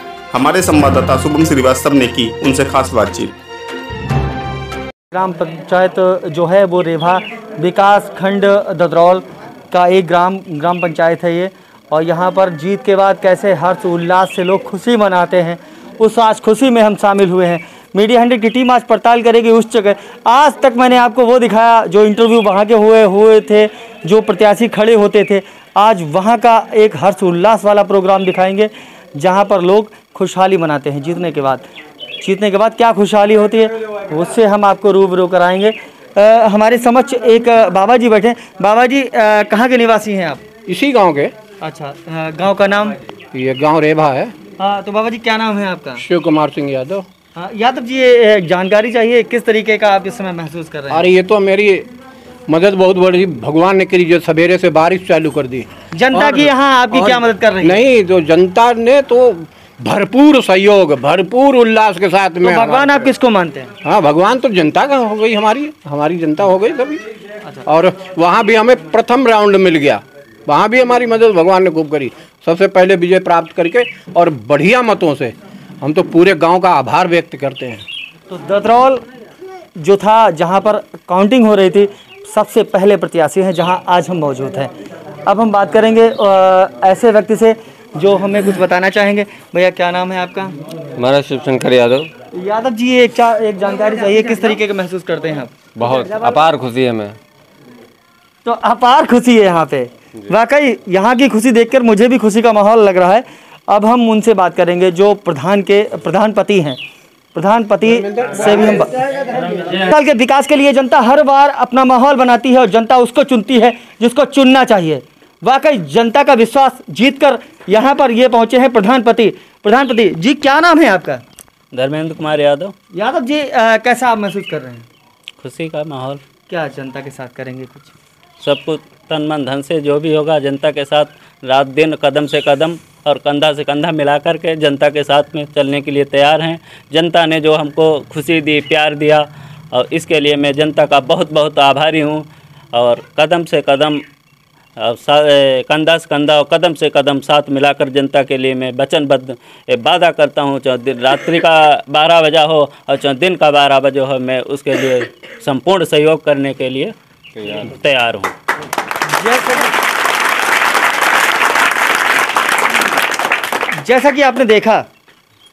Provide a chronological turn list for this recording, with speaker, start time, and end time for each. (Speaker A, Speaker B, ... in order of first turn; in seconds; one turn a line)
Speaker A: 0.3-3.3
Speaker B: 5.1-40.4
Speaker C: 40.7-41.3
Speaker B: 41.6-43.0
Speaker C: 43.3-44.3
Speaker B: 44.6-46.0
Speaker C: 46.0-47.0
Speaker B: 47.3-51.1
Speaker C: 50.9-51.9
Speaker C: 52.5-62.9
Speaker B: 55.9-57.8
Speaker B: 62.4-63.7
Speaker C: 63.8-67.0
Speaker C: 67.7-77.8
Speaker B: 78.3-79.0
Speaker B: 79.8-84.7
Speaker B: 85.2-90.5
Speaker D: 91.0-92.1
Speaker B: 92.3-95.5
Speaker D: 95.8-97.2
Speaker B: 98.4-106.8
Speaker B: 107.3-109.1
Speaker B: 109.6-121.2
Speaker E: 121.7-122.7
Speaker B: 122.9-124.9
Speaker E: 125.4-126.2
Speaker B: 126.5-127.9
Speaker E: 128.4-144.0
Speaker E: 144.8-156.9
Speaker E: 157.5-158.3
Speaker B: 159.1-159.8
Speaker B: 163.8-164.8